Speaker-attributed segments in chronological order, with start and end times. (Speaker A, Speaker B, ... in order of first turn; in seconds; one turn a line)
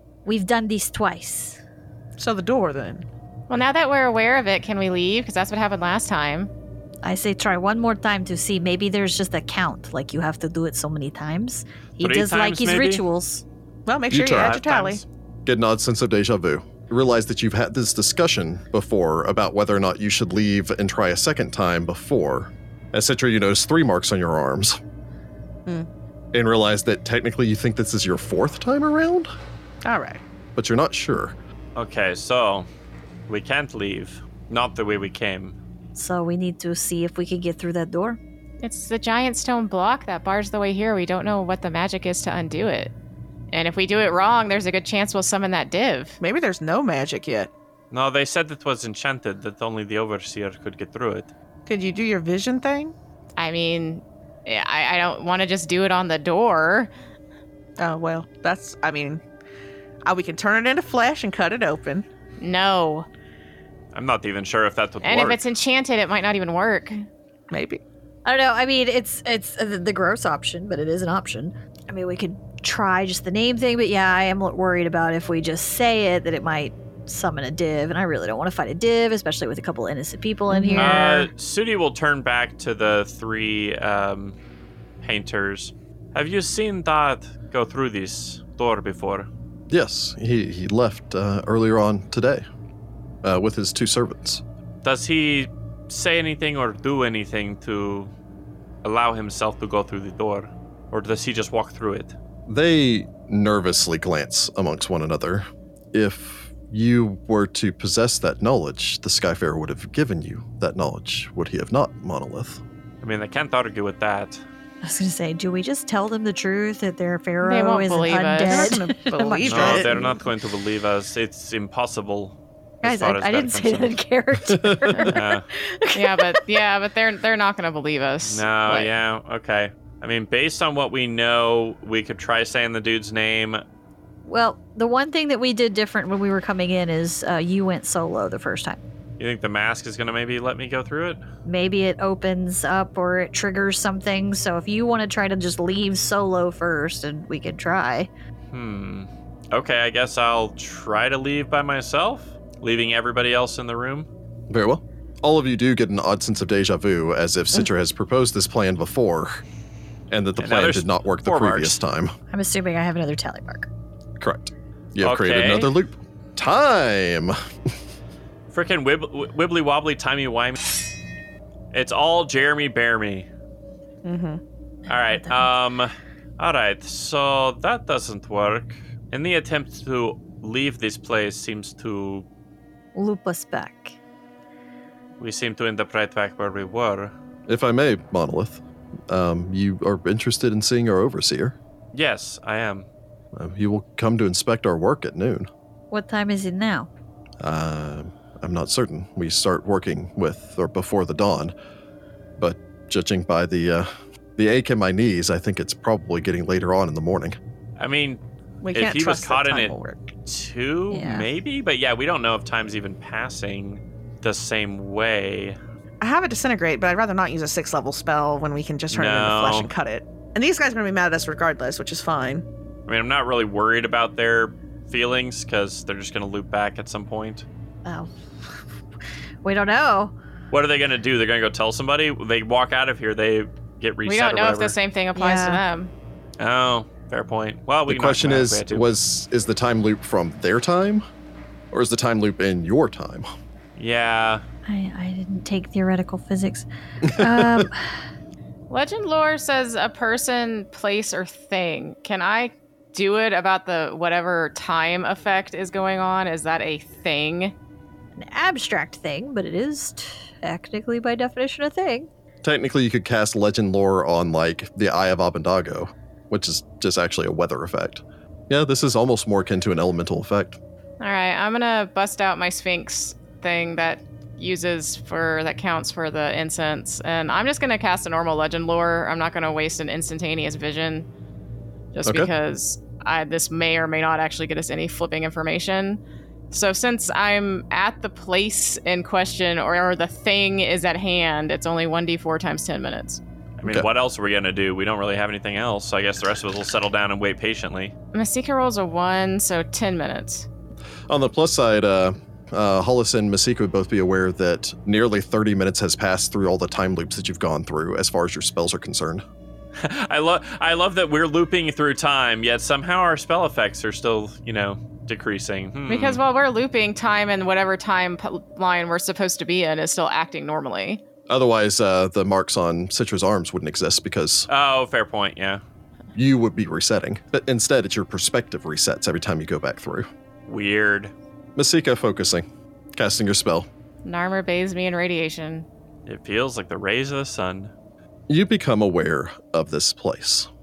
Speaker A: 0.2-1.6
Speaker B: 2.2-3.0
Speaker C: 3.5-6.5
Speaker A: 7.0-13.4
Speaker D: 12.0-13.0
Speaker B: 13.9-15.0
Speaker E: 14.1-14.6
Speaker D: 14.2-15.0
Speaker E: 15.4-24.8
Speaker E: 26.3-29.3
Speaker B: 29.8-30.2
Speaker E: 30.6-31.3
Speaker D: 31.8-32.7
Speaker D: 33.3-35.5
Speaker A: 36.0-38.2
Speaker C: 38.6-42.9
Speaker C: 43.5-46.2
Speaker B: 46.2-47.5
Speaker D: 47.9-51.3
Speaker B: 51.7-52.9
Speaker C: 53.4-56.9
Speaker B: 57.8-59.2
Speaker B: 60.0-62.0
Speaker C: 62.4-63.1
Speaker D: 63.9-65.4
Speaker C: 65.0-67.0
Speaker B: 67.5-67.8
Speaker A: 68.2-81.3
Speaker C: 80.5-80.9
Speaker D: 80.7-84.3
Speaker D: 85.0-89.3
Speaker E: 89.7-92.4
Speaker E: 93.2-94.4
Speaker D: 94.8-98.1
Speaker D: 98.8-102.1
Speaker E: 102.5-112.6
Speaker D: 113.0-114.4
Speaker A: 114.8-120.1
Speaker C: 117.4-118.8
Speaker B: 118.3-120.2
Speaker D: 119.4-123.9
Speaker A: 122.8-126.6
Speaker E: 124.5-124.9
Speaker C: 124.9-125.2
Speaker D: 125.0-125.4
Speaker C: 125.9-128.9
Speaker D: 128.2-133.6
Speaker A: 134.2-138.8
Speaker D: 139.2-141.2
Speaker A: 141.4-148.1
Speaker D: 148.5-154.1
Speaker E: 154.5-159.4
Speaker E: 160.1-162.1
Speaker D: 160.4-161.8
Speaker A: 162.3-163.7
Speaker E: 164.2-167.3
Speaker D: 165.0-165.7
Speaker D: 168.5-170.6
Speaker D: 171.7-173.3
Speaker B: 174.0-174.4
Speaker D: 174.9-182.2
Speaker A: 182.9-183.9
Speaker D: 185.2-187.1
Speaker E: 187.5-191.6
Speaker D: 191.9-192.8
Speaker E: 193.3-195.5
Speaker A: 195.9-196.9
Speaker E: 197.4-201.5
Speaker E: 202.4-207.3
Speaker D: 207.8-208.2
Speaker B: 208.6-210.1
Speaker D: 208.7-215.6
Speaker A: 210.9-211.3
Speaker B: 216.0-222.4
Speaker D: 218.9-219.7
Speaker D: 222.9-227.4
Speaker A: 227.8-228.6
Speaker A: 229.4-230.1
Speaker D: 230.5-234.8
Speaker C: 234.0-235.9
Speaker A: 235.2-235.6
Speaker D: 236.4-238.9
Speaker E: 237.9-241.0
Speaker E: 241.7-243.3
Speaker D: 243.8-244.4
Speaker A: 244.7-248.0
Speaker E: 247.0-247.7
Speaker C: 248.7-257.5
Speaker A: 258.1-262.1
Speaker E: 262.4-270.6
Speaker C: 271.0-281.1
Speaker C: 281.9-293.2
Speaker E: 282.0-282.3
Speaker D: 293.6-297.9
Speaker C: 298.1-300.5
Speaker E: 301.1-309.2
Speaker D: 309.8-316.2
Speaker C: 315.9-321.0
Speaker E: 321.3-324.5
Speaker D: 324.5-325.6
Speaker E: 326.1-330.1
Speaker D: 330.5-331.1
Speaker E: 331.6-333.7
Speaker C: 334.0-335.6
Speaker D: 336.1-337.7
Speaker E: 338.3-340.5